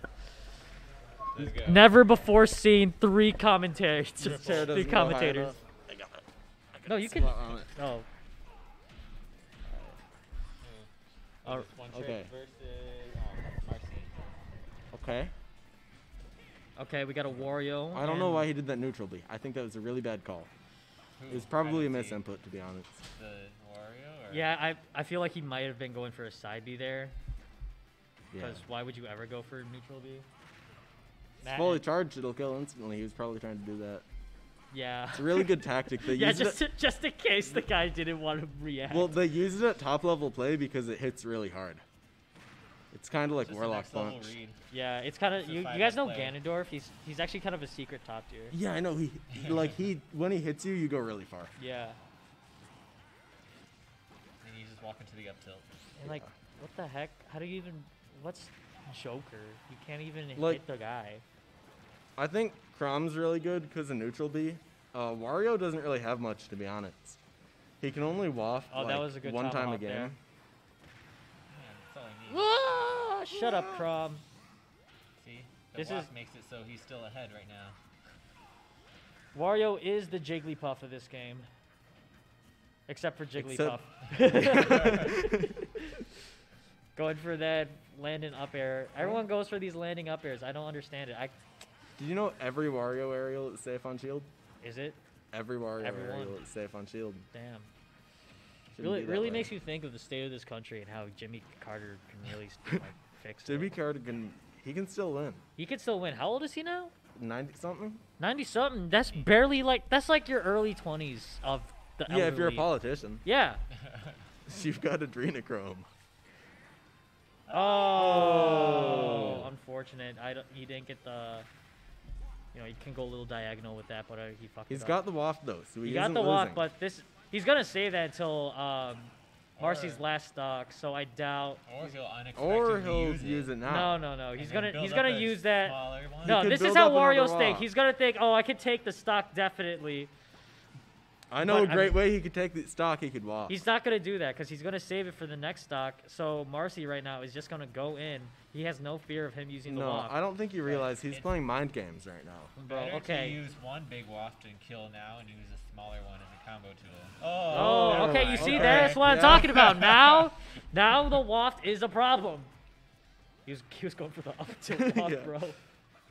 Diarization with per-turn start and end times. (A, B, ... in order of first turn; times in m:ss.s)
0:01.3-0:02.0 A
0:01.4-0:05.6 B
0:04.2-0:07.7 C
0:06.9-0:08.1 B
0:09.6-0:10.0 C
0:10.6-0:10.9 A
0:11.4-0:14.2 A
0:11.9-0:12.3 C
0:14.9-0:15.3 C
0:16.8-0:18.5 B
0:17.3-0:20.5 C
0:21.2-0:22.2 A
0:21.3-0:23.0 C
0:23.1-0:24.5 A
0:24.3-0:27.1 B
0:28.3-0:28.6 C
0:28.4-0:30.2 B
0:31.4-0:31.8 B
0:31.4-0:34.0 C
0:34.7-0:39.2 B
0:35.1-0:36.6 C
0:38.9-0:41.8 C
0:42.9-0:44.3 C
0:43.4-0:44.6 A
0:44.7-0:48.6 B
0:45.4-0:46.4 A
0:48.5-0:51.5 C
0:49.3-0:49.7 A
0:51.6-0:52.0 B
0:54.4-0:55.7 A
0:56.0-1:01.2 B
0:56.0-0:56.3 C
1:00.4-1:00.6 C
1:02.2-1:07.2 C
1:07.8-1:10.2 C
1:08.7-1:10.1 B
1:11.5-1:12.5 A
1:12.3-1:14.2 B
1:13.3-1:13.9 C
1:15.2-1:17.8 A
1:15.8-1:16.1 B
1:19.3-1:21.5 B
1:22.9-1:25.9 B
1:23.4-1:25.6 C
1:24.4-1:25.1 A
1:26.9-1:31.4 B
1:29.0-1:29.2 C
1:32.0-1:34.3 C
1:34.6-1:35.0 B
1:35.3-1:37.2 C
1:35.8-1:36.4 B
1:37.3-1:37.7 B
1:38.7-1:39.5 C
1:38.8-1:43.8 B
1:43.4-1:45.4 C
1:45.6-1:46.9 B
1:47.1-1:48.0 C
1:48.2-1:52.7 B
1:52.1-1:53.2 C
1:53.2-1:53.6 B
1:53.8-1:54.2 A
1:54.5-1:55.8 C
1:57.5-1:59.4 A
1:57.5-2:01.5 B
1:58.0-1:59.5 C
2:02.5-2:05.0 B
2:04.7-2:06.6 C
2:05.8-2:11.6 B
2:09.6-2:10.0 A
2:11.6-2:13.6 A
2:12.4-2:14.0 C
2:13.6-2:20.1 B
2:14.3-2:16.4 A
2:16.2-2:17.7 C
2:21.3-2:23.6 C
2:21.4-2:22.0 B
2:23.5-2:30.2 B
2:29.6-2:32.5 C
2:30.6-2:31.3 A
2:32.6-2:33.4 B
2:32.7-2:40.3 A
2:37.5-2:39.5 C
2:37.5-2:42.5 B
2:43.4-2:45.6 B
2:44.7-2:45.4 C